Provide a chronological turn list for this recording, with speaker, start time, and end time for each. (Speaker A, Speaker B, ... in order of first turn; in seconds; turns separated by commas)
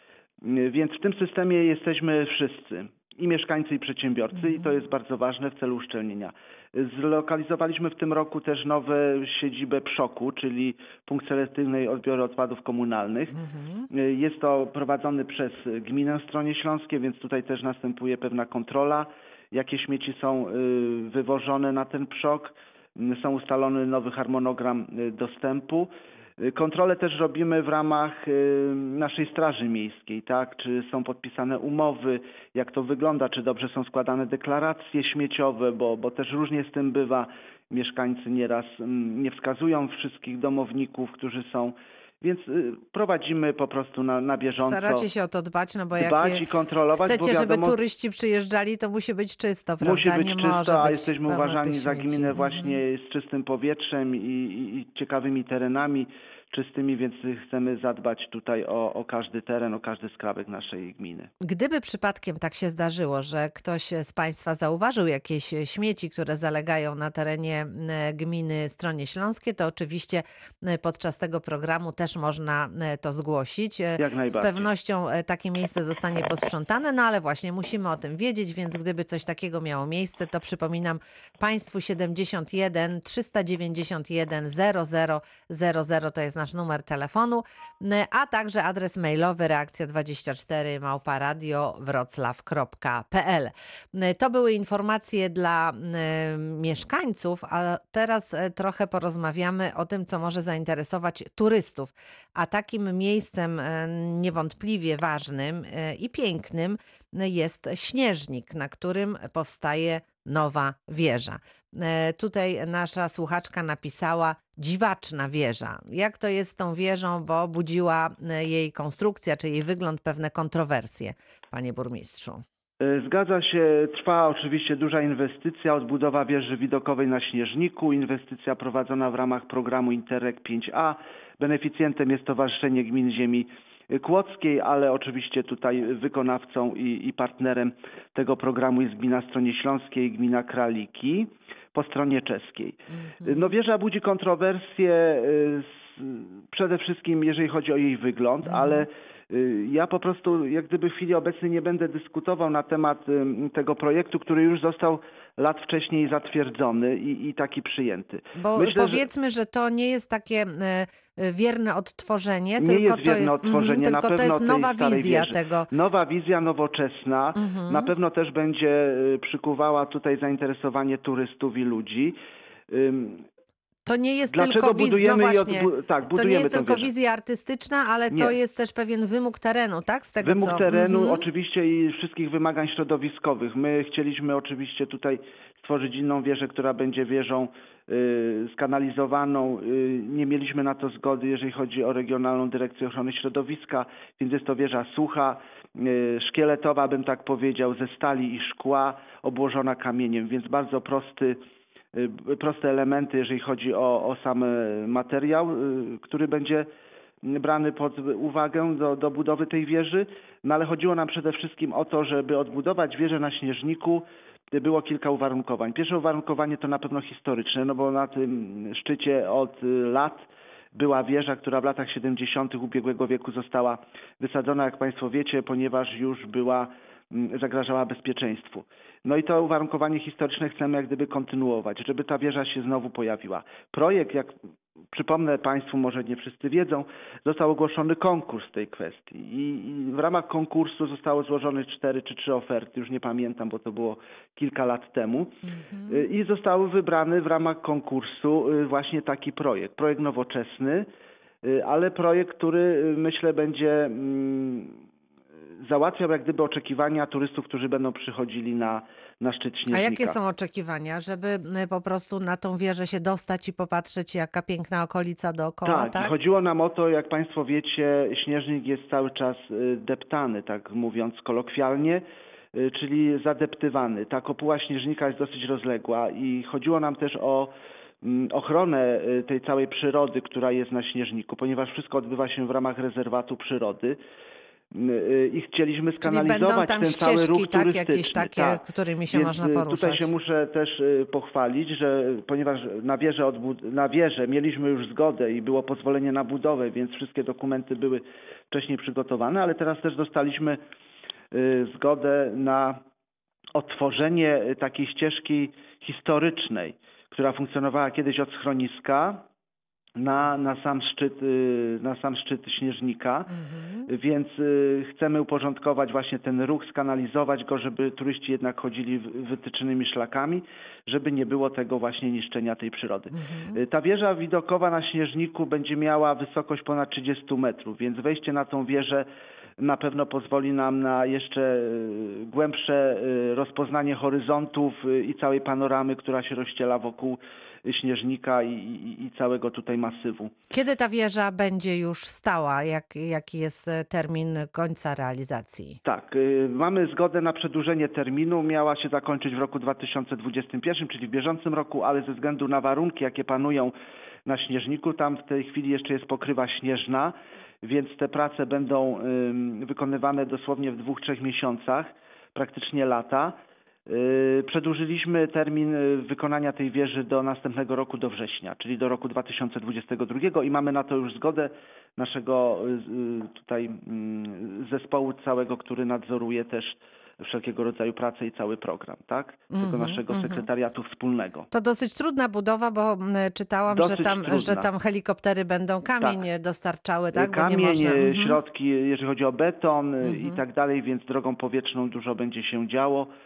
Speaker A: 0.4-13.3, Speaker B: 4.3-4.7, Speaker B: 13.3-13.9, Speaker A: 13.9-45.1, Speaker B: 44.6-46.4, Speaker A: 46.0-47.8, Speaker B: 47.0-52.8, Speaker A: 49.8-61.3, Speaker B: 61.4-122.4, Speaker A: 74.0-74.7, Speaker A: 122.8-159.1, Speaker B: 142.9-143.5, Speaker B: 148.4-148.9, Speaker B: 158.4-165.7, Speaker A: 162.6-172.2, Speaker B: 167.4-167.9, Speaker A: 172.7-173.3, Speaker B: 173.9-181.2, Speaker A: 174.3-176.9, Speaker A: 180.2-201.4, Speaker A: 201.9-206.7, Speaker A: 207.2-234.3, Speaker A: 234.9-250.9, Speaker B: 245.5-246.1, Speaker A: 251.4-254.8, Speaker A: 255.6-260.2, Speaker B: 259.7-266.1, Speaker A: 265.6-284.0, Speaker A: 284.7-300.6, Speaker B: 286.0-290.1, Speaker A: 301.3-302.8, Speaker A: 303.5-309.2, Speaker A: 310.0-313.3, Speaker B: 313.3-313.9, Speaker A: 313.9-329.1, Speaker B: 323.1-323.6, Speaker A: 329.6-340.3, Speaker B: 340.5-345.8, Speaker A: 345.9-353.7, Speaker A: 354.3-381.5, Speaker B: 379.5-380.5, Speaker B: 381.5-388.4, Speaker A: 383.7-384.7, Speaker A: 387.1-393.1, Speaker B: 390.0-390.4